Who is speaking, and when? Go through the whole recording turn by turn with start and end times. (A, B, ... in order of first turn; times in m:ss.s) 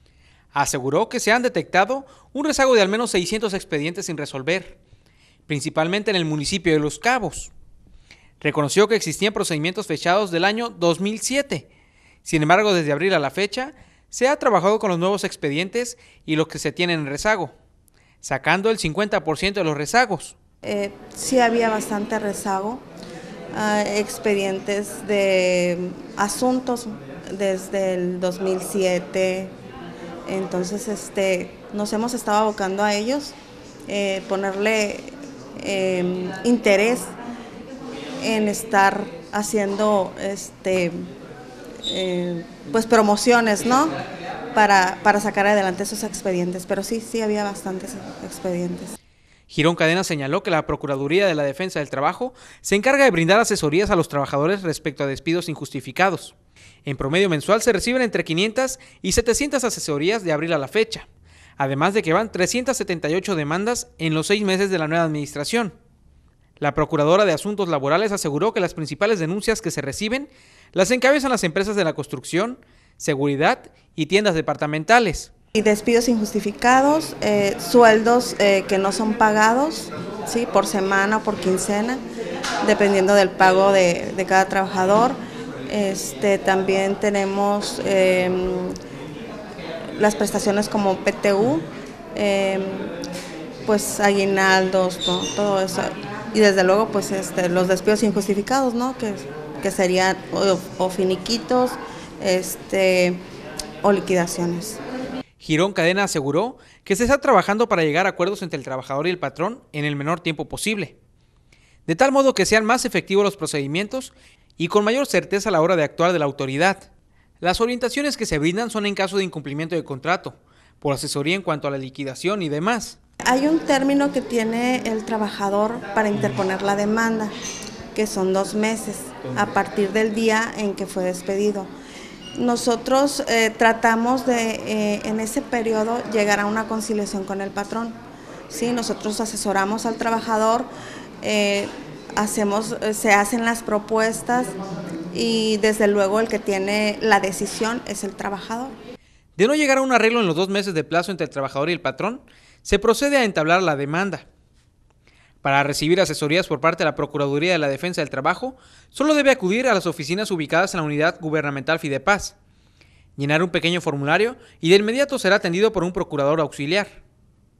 0:00.5-0:04.8 A
0:05.5-0:07.5 A
0:08.4-0:11.7 A
0:12.2-0:17.5 A
0:18.2-0:20.3 A
0:20.6-0:22.8 B
0:23.5-0:29.5 B
0:30.2-0:33.3 B
0:33.9-0:37.1 B
0:38.2-0:41.0 B
0:41.8-0:43.9 B
0:44.5-0:49.0 B
0:49.5-0:56.3 A
0:56.8-1:05.7 A
1:06.6-1:15.3 A
1:15.5-1:22.0 B
1:22.6-1:25.2 B
1:25.7-1:28.7 B
1:30.0-1:32.9 B
1:33.6-1:43.2 B
1:43.8-1:44.8 B
1:45.4-1:51.0 A
1:51.9-1:56.8 A
1:57.4-2:03.0 A
2:03.2-2:07.3 B
2:07.9-2:11.7 B
2:12.4-2:18.0 B
2:18.5-2:20.7 B
2:21.2-2:24.5 B
2:25.1-2:28.7 B
2:29.4-2:34.2 A
2:35.4-2:42.4 A
2:43.2-2:47.0 A